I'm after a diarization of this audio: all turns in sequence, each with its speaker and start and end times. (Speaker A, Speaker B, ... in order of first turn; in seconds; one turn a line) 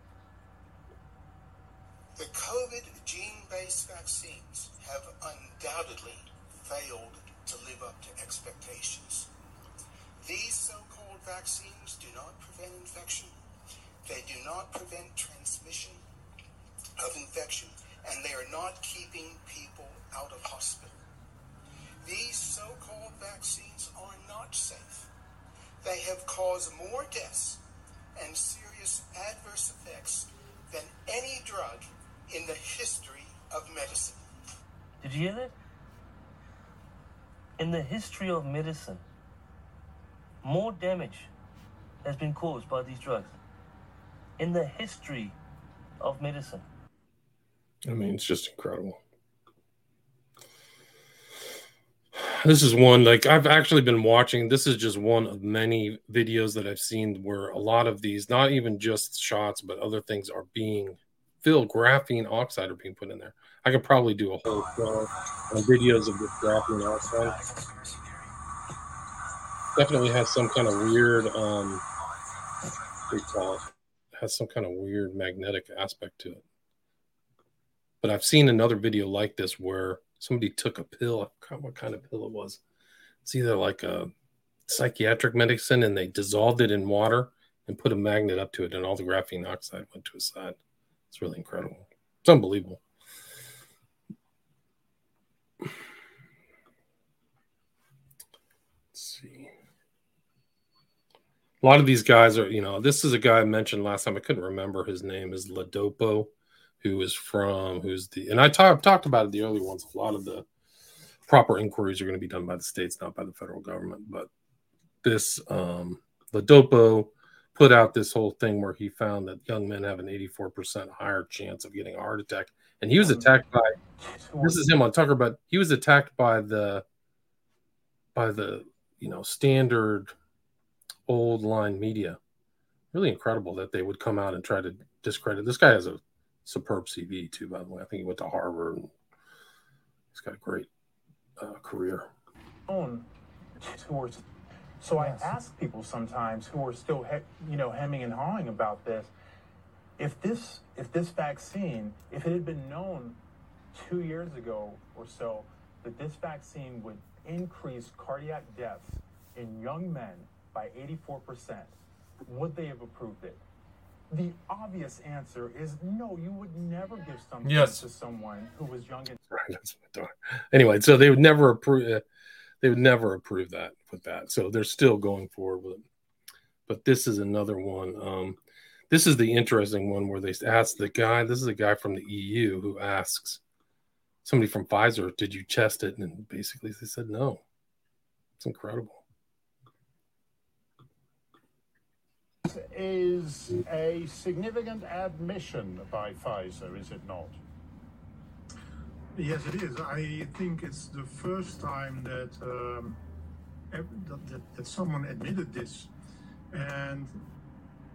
Speaker A: 2.2-9.3
Speaker A: 10.2-13.3
Speaker A: 14.0-16.0
Speaker A: 17.0-21.0
Speaker A: 22.0-25.1
Speaker A: 25.8-27.6
Speaker A: 28.2-34.2
Speaker B: 35.0-35.5
Speaker B: 37.6-39.0
Speaker B: 40.4-41.3
Speaker B: 42.0-43.4
Speaker B: 44.4-45.4
Speaker B: 46.0-46.6
Speaker C: 47.9-49.0
Speaker C: 52.1-67.6
Speaker C: 69.8-71.8
Speaker C: 73.1-76.4
Speaker C: 78.0-82.6
Speaker C: 83.2-84.1
Speaker C: 84.7-90.6
Speaker C: 91.1-92.8
Speaker C: 98.9-99.5
Speaker C: 101.6-110.5
Speaker C: 111.3-114.3
Speaker C: 115.0-123.8
Speaker D: 123.0-123.3
Speaker D: 124.0-124.7
Speaker C: 124.4-126.8
Speaker C: 128.2-130.1
Speaker C: 131.1-132.2
Speaker C: 132.9-138.9
Speaker C: 140.1-140.7
Speaker C: 141.4-142.1
Speaker D: 142.7-143.1
Speaker D: 143.6-144.2
Speaker D: 144.8-149.1
Speaker E: 144.9-145.3
Speaker D: 150.0-153.2
Speaker D: 153.7-163.4
Speaker D: 164.1-169.2
Speaker C: 167.4-167.8
Speaker C: 169.3-172.0
Speaker C: 172.6-175.8
Speaker C: 176.7-178.4
Speaker C: 178.9-183.4
Speaker C: 184.2-187.4
Speaker C: 188.4-189.0
Speaker F: 192.4-197.4
Speaker E: 199.1-203.0
Speaker E: 203.7-205.9
Speaker E: 206.5-207.2